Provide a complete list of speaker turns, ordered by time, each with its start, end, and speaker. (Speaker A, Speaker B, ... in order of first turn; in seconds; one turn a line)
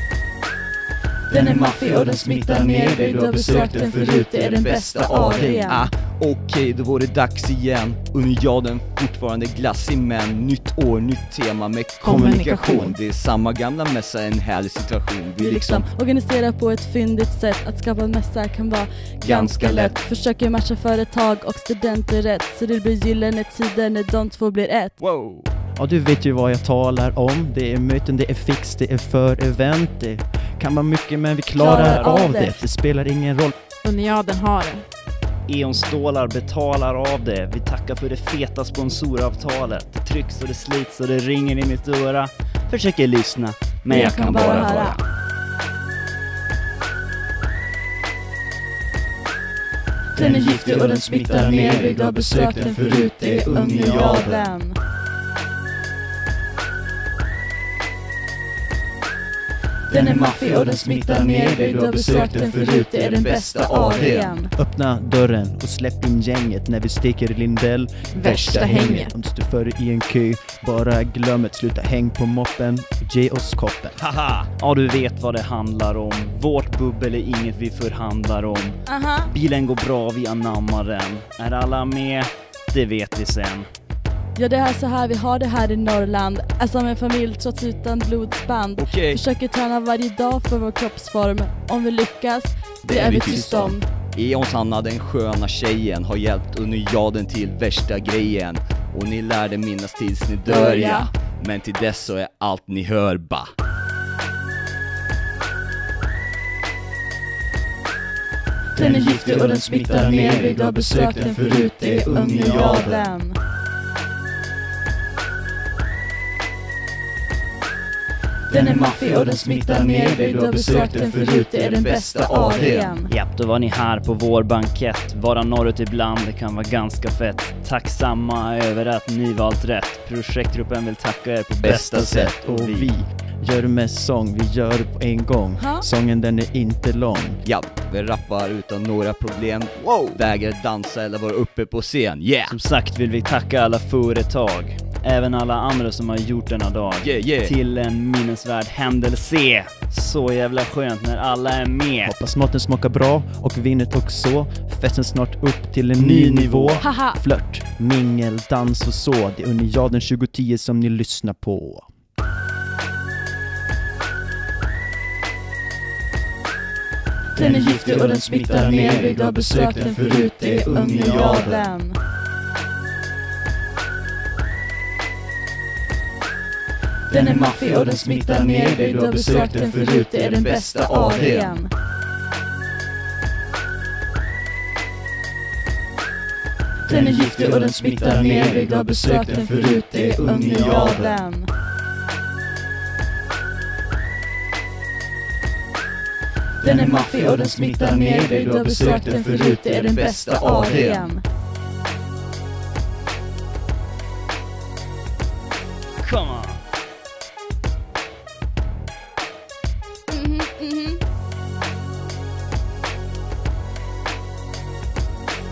Speaker A: 1.3-5.9
Speaker B: 4.4-15.9
Speaker C: 12.0-12.9
Speaker D: 12.0-12.6
Speaker A: 15.4-25.0
Speaker B: 19.2-20.0
Speaker B: 25.0-25.5
Speaker D: 25.8-33.5
Speaker A: 31.6-32.6
Speaker E: 31.6-32.2
Speaker C: 33.8-34.9
Speaker E: 35.5-44.8
Speaker B: 43.9-45.0
Speaker A: 43.9-45.0
Speaker A: 50.1-54.8
Speaker A: 59.9-64.5
Speaker B: 63.2-64.4
Speaker D: 64.5-74.0
Speaker C: 68.1-69.1
Speaker B: 74.0-74.4
Speaker E: 74.5-83.7
Speaker A: 78.9-79.3
Speaker A: 84.3-93.9
Speaker B: 88.8-89.2
Speaker B: 92.8-103.5
Speaker A: 100.5-101.1
Speaker A: 108.8-113.4
Speaker B: 112.1-113.0
Speaker A: 118.5-123.1
Speaker B: 121.6-123.0
Speaker E: 123.1-132.9
Speaker B: 131.6-132.2
Speaker D: 131.9-137.4
Speaker A: 135.6-135.9
Speaker B: 137.4-142.6
Speaker E: 139.9-140.2
Speaker E: 142.5-152.2
Speaker B: 147.0-147.5
Speaker D: 152.0-161.9
Speaker E: 156.0-156.8
Speaker A: 156.8-157.2
Speaker A: 167.3-172.0
Speaker A: 177.1-181.7
Speaker B: 180.3-181.6
Speaker A: 186.9-191.5
Speaker B: 190.3-191.2
Speaker A: 196.6-201.2
Speaker B: 199.9-201.1
Speaker E: 206.0-206.6
Speaker A: 210.1-211.0